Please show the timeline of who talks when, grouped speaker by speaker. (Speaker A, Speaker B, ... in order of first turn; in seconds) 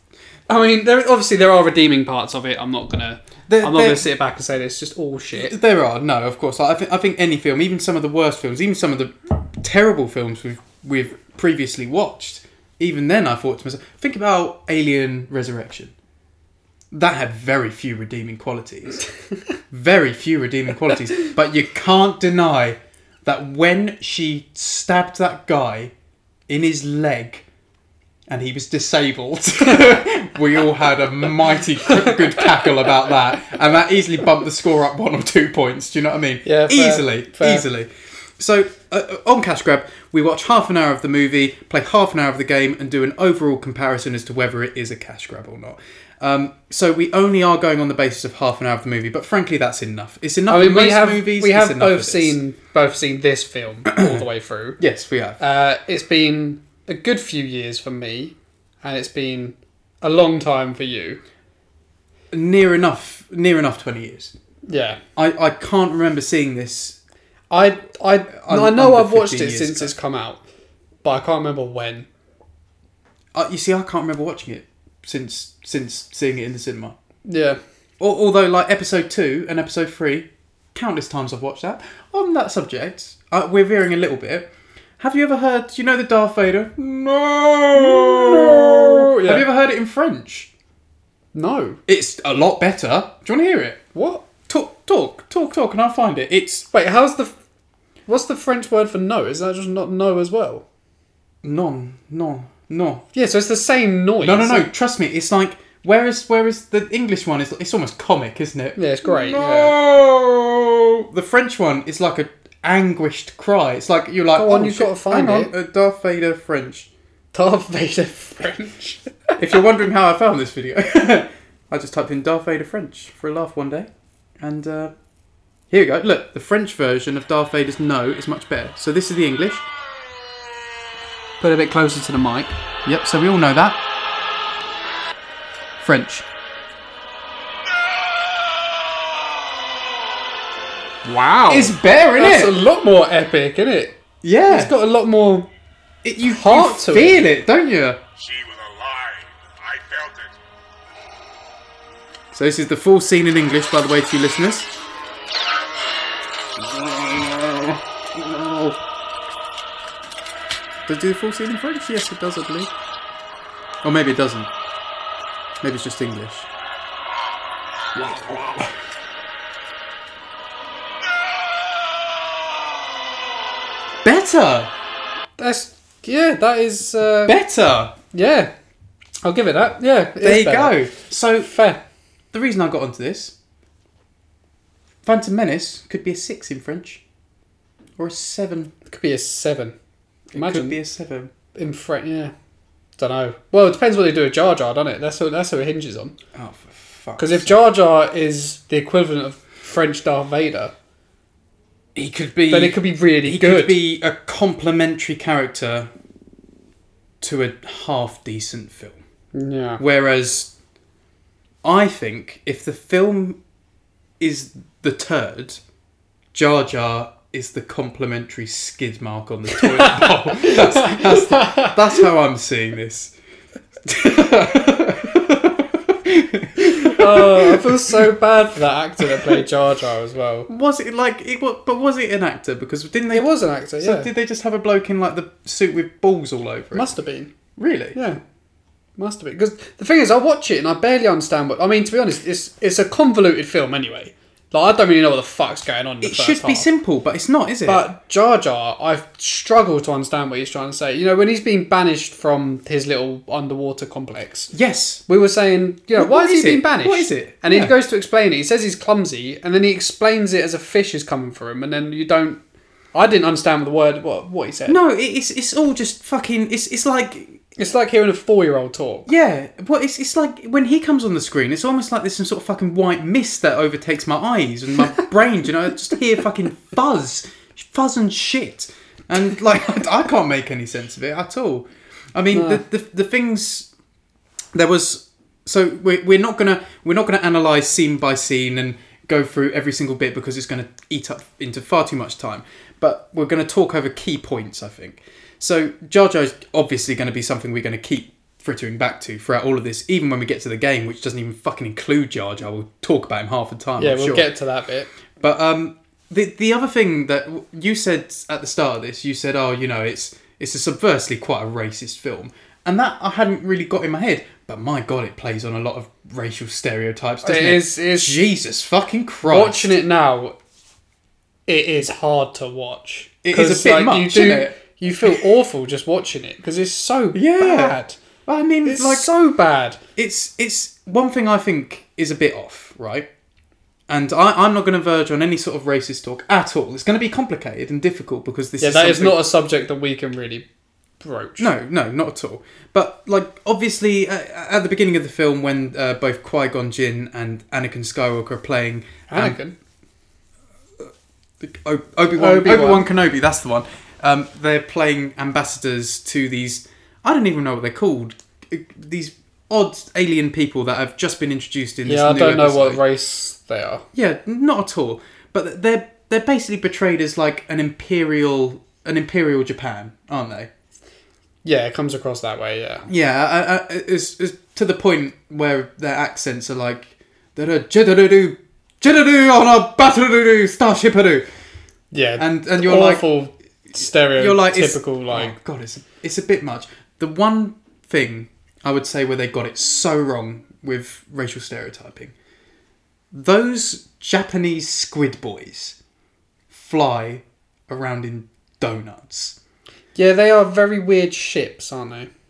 Speaker A: 0.5-5.5, 36.4-37.6, 50.5-54.8, 55.4-61.2, 64.7-65.0, 67.5-70.4, 71.0-72.1, 77.2-77.6, 87.7-89.5, 91.3-91.8, 93.9-94.2, 96.7-97.3, 98.1-100.6, 103.1-104.7, 108.8-109.8, 114.3-115.5, 117.3-119.1, 131.4-132.5, 141.0-145.5, 146.2-147.2, 175.4-177.4, 178.1-178.5, 179.2-180.8, 181.4-181.8, 188.8-189.7, 190.3-190.8, 191.5-192.3, 193.0-196.2, 197.2-200.7, 202.5-203.8, 209.3-209.8, 219.6-222.0, 226.6-230.5, 233.1-234.1, 236.7-237.3, 237.9-238.2, 239.0-246.7, 247.7-254.5, 255.1-262.4, 262.9-264.8, 267.6-269.1, 282.3-282.6, 303.8-304.9, 317.2-318.2, 319.2-320.4, 321.5-328.0, 328.6-329.8, 338.6-340.4, 341.0-341.5, 349.1-349.5, 352.1-352.9, 361.8-363.8, 371.4-372.9, 381.9-385.3, 399.9-402.1
Speaker B: 3.5-4.0, 5.3-15.9, 16.9-19.0, 19.7-25.9, 26.5-27.4, 28.3-52.4, 53.9-54.2, 54.8-55.4, 62.3-64.3, 65.2-67.0, 68.4-69.9, 73.3-77.0, 78.0-90.5, 91.9-93.8, 94.5-96.7, 101.4-103.0, 104.2-116.9, 119.4-124.9, 125.7-129.7, 132.8-133.8, 135.8-136.2, 141.5-142.5, 144.2-144.7, 146.0-148.0, 152.3-154.7, 156.6-158.8, 160.8-162.7, 163.8-164.5, 165.6-166.5, 167.9-168.7, 174.0-174.7, 177.2-177.9, 180.2-181.5, 182.3-183.3, 185.0-187.0, 188.0-188.7, 190.3-191.3, 196.3-197.5, 201.9-205.9, 207.2-209.0, 209.8-210.5, 211.6-213.4, 214.2-215.6, 216.3-223.1, 223.8-228.0, 229.1-229.4, 230.5-233.3, 233.8-236.9, 237.6-238.0, 246.0-247.8, 254.5-255.0, 255.9-257.7, 264.7-267.4, 269.1-283.7, 284.5-304.3, 305.2-319.7, 323.2-325.2, 327.1-329.1, 329.9-333.1, 333.9-339.3, 341.4-349.4, 351.4-362.8, 363.9-370.5, 372.9-381.2, 382.2-383.0, 384.1-392.1, 393.1-395.8, 396.5-399.4
Speaker C: 148.2-150.4